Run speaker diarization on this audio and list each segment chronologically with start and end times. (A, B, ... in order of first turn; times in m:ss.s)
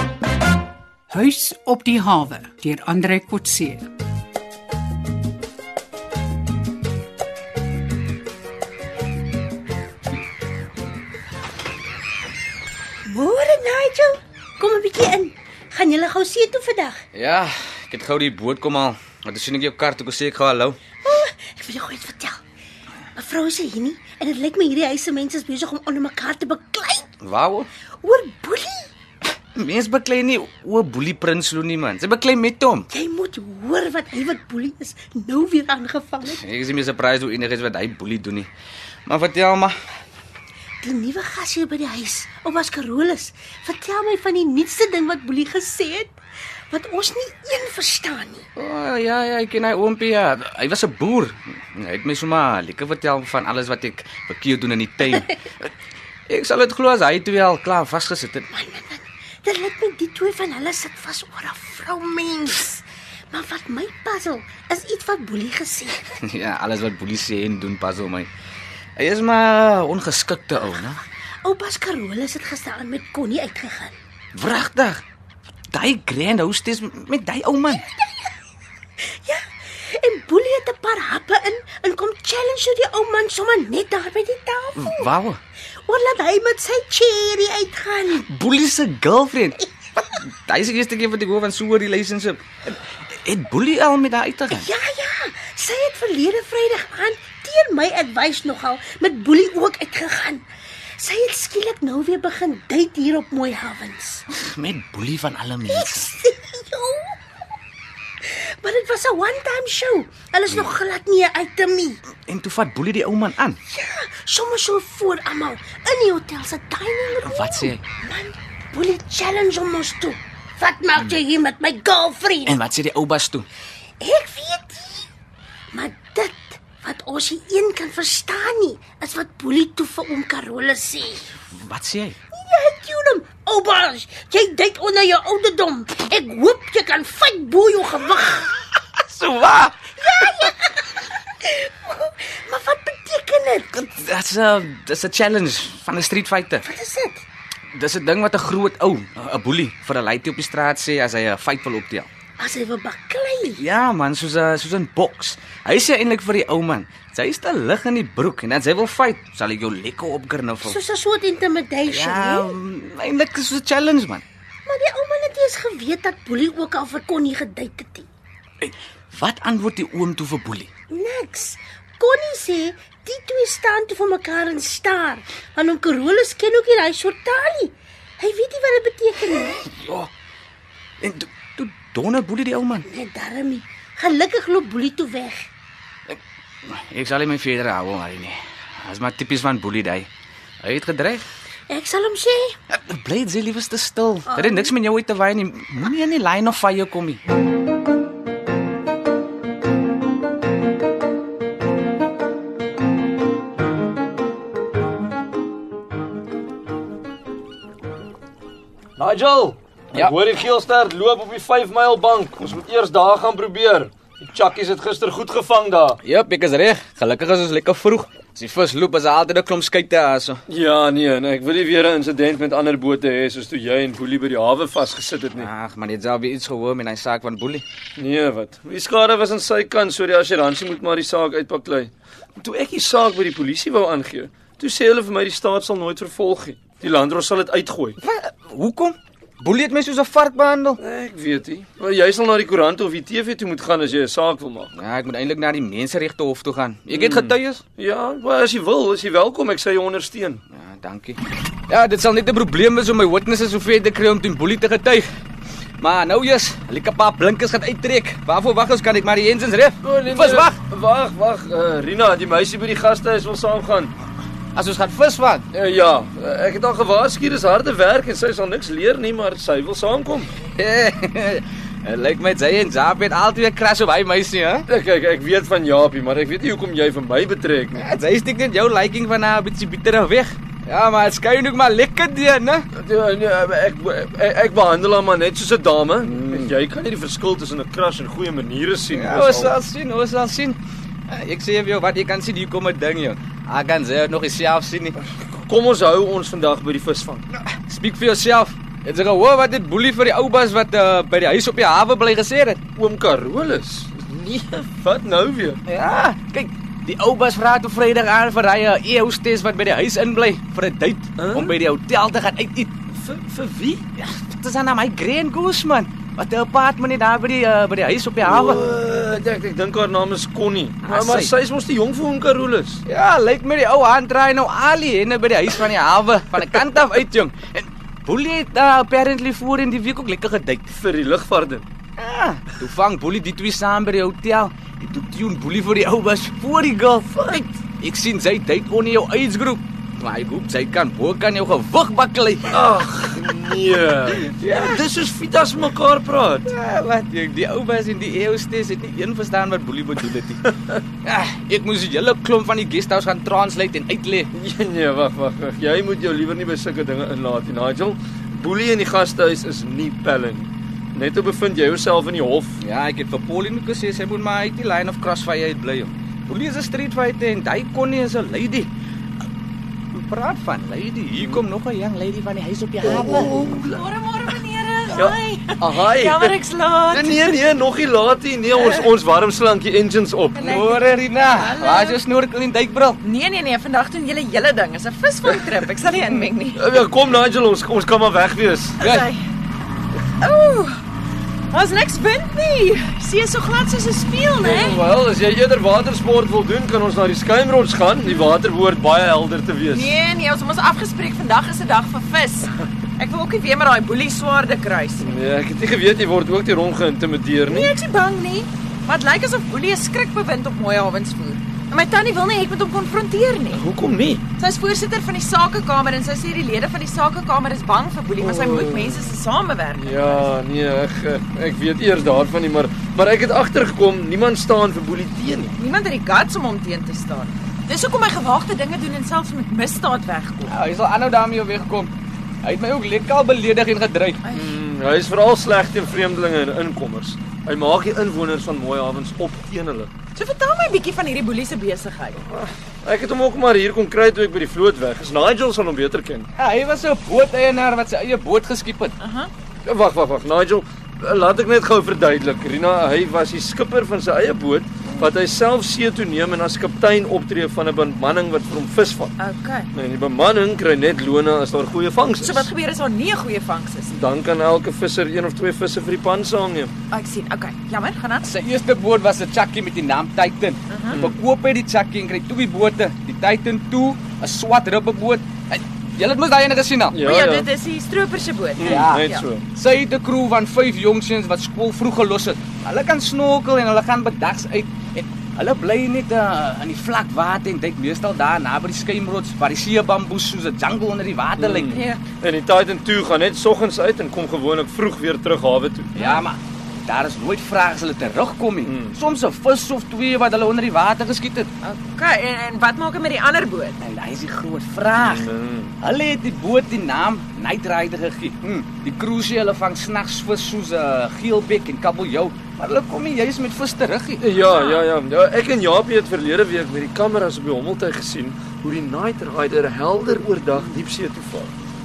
0:01.1-0:03.8 A
0:13.0-0:17.0 B
0:17.1-0:20.8 C
0:21.0-0:22.4 B
0:23.2-0:27.1 B
0:27.2-0:27.7 C
0:28.0-0:28.9 B
0:29.6-0:32.9 C
0:32.9-0:36.4 B
0:36.2-0:38.5 C
0:39.1-0:39.7 C
0:40.8-0:46.2 B
0:46.7-0:48.4 B
0:48.6-0:55.7 C
0:56.3-0:58.5 C
0:58.5-1:06.0 B
1:06.2-1:08.3 C
1:09.0-1:11.0 C
1:11.4-1:13.9 B
1:14.3-1:15.0 C
1:15.7-1:17.8 C
1:17.7-1:18.3 B
1:19.1-1:25.1 B
1:24.8-1:25.4 C
1:25.8-1:28.2 B
1:28.2-1:29.6 C
1:30.2-1:34.7 C
1:34.5-1:40.4 B
1:41.0-1:44.2 B
1:44.3-1:46.1 C
1:45.7-1:47.1 B
1:48.2-1:52.0 B
1:50.5-1:50.7 C
1:52.2-1:53.6 C
1:53.7-2:02.6 B
1:57.2-1:57.8 C
2:02.4-2:03.5 C
2:04.0-2:05.0 B
2:05.7-2:11.2 B
2:11.5-2:12.2 C
2:12.3-2:18.5 B
2:19.0-2:20.4 C
2:20.0-2:23.8 B
2:23.7-2:26.6 C
2:26.6-2:27.2 B
2:27.7-2:32.1 C
2:32.4-2:33.6 B
2:33.5-2:40.8 C
2:40.6-2:42.5 B
2:41.9-2:44.2 C
2:44.6-2:48.1 B
2:48.6-2:50.7 C
2:50.9-2:59.6 B
2:59.6-3:00.1 C
3:01.0-3:02.8 C
3:02.8-3:05.5 B
3:06.1-3:10.1 C
3:10.6-3:11.2 C
3:11.7-3:12.5 B
3:12.7-3:17.2 C
3:14.3-3:14.7 B
3:29.0-3:36.0 D
3:36.0-3:40.4 C
3:40.5-3:45.5 D
3:45.3-3:47.6 C
3:48.0-3:58.0 D
3:58.0-4:00.8 C
4:00.8-4:04.7 D
4:04.8-4:07.6 C
4:06.9-4:10.4 D
4:10.5-4:15.0 C
4:15.8-4:20.6 C
4:19.8-4:23.9 D
4:24.5-4:25.4 C
4:25.5-4:30.3 D
4:30.4-4:34.6 C
4:34.7-4:37.8 D
4:37.8-4:42.6 C
4:42.7-4:49.5 D
4:46.0-4:46.5 C
4:48.9-4:55.0 C
4:55.0-4:57.2 D
4:57.5-5:02.6 C
5:02.8-5:05.6 D
5:05.6-5:12.7 C
5:11.2-5:11.5 D
5:12.9-5:13.8 D
5:14.0-5:18.6 C
5:18.2-5:22.8 D
5:20.8-5:21.3 C
5:22.8-5:30.7 C
5:30.7-5:31.6 D
5:32.0-5:42.6 C
5:37.1-5:37.4 D
5:42.5-5:46.5 D
5:44.2-5:44.8 C
5:46.4-5:50.4 C
5:51.0-5:54.3 C
5:54.3-6:02.6 D
6:02.6-6:08.7 C
6:09.9-6:13.4 C
6:12.8-6:13.8 D
6:13.4-6:17.4 E
6:14.9-6:16.3 D
6:17.0-6:20.5 D
6:18.5-6:18.8 E
6:20.4-6:22.0 E
6:20.4-6:23.0 C
6:23.0-6:26.6 E
6:26.6-6:28.8 D
6:28.8-6:29.2 E
6:28.8-6:29.1 C
6:30.2-6:30.8 E
6:31.5-6:34.8 E
6:34.4-6:39.9 D
6:39.7-6:45.1 E
6:45.0-6:47.7 D
6:47.5-6:53.6 E
6:53.5-6:54.2 D
6:54.4-7:00.3 E
6:58.2-6:59.2 D
6:59.7-7:05.5 D
7:05.6-7:10.5 E
7:10.5-7:11.9 C
7:12.4-7:14.2 C
7:14.2-7:14.6 E
7:14.3-7:19.9 D
7:20.1-7:22.2 E
7:22.2-7:26.3 D
7:26.4-7:29.0 C
7:29.0-7:29.3 E
7:29.6-7:39.1 D
7:39.2-7:39.7 E
7:39.7-7:42.5 D
7:42.2-7:43.9 E
7:43.9-7:46.7 D
7:46.9-7:48.2 E
7:48.2-7:57.0 C
7:50.7-7:51.0 E
7:56.9-7:57.5 D
7:57.0-7:59.3 E
7:58.6-7:59.4 D
7:58.6-8:11.8 C
8:11.4-8:15.9 D
8:11.7-8:12.0 E
8:15.9-8:16.2 E
8:15.9-8:21.5 C
8:18.6-8:19.0 D
8:21.6-8:23.8 E
8:23.8-8:25.3 C
8:25.0-8:25.7 D
8:25.8-8:34.2 C
8:34.2-8:41.5 D
8:34.4-8:34.8 E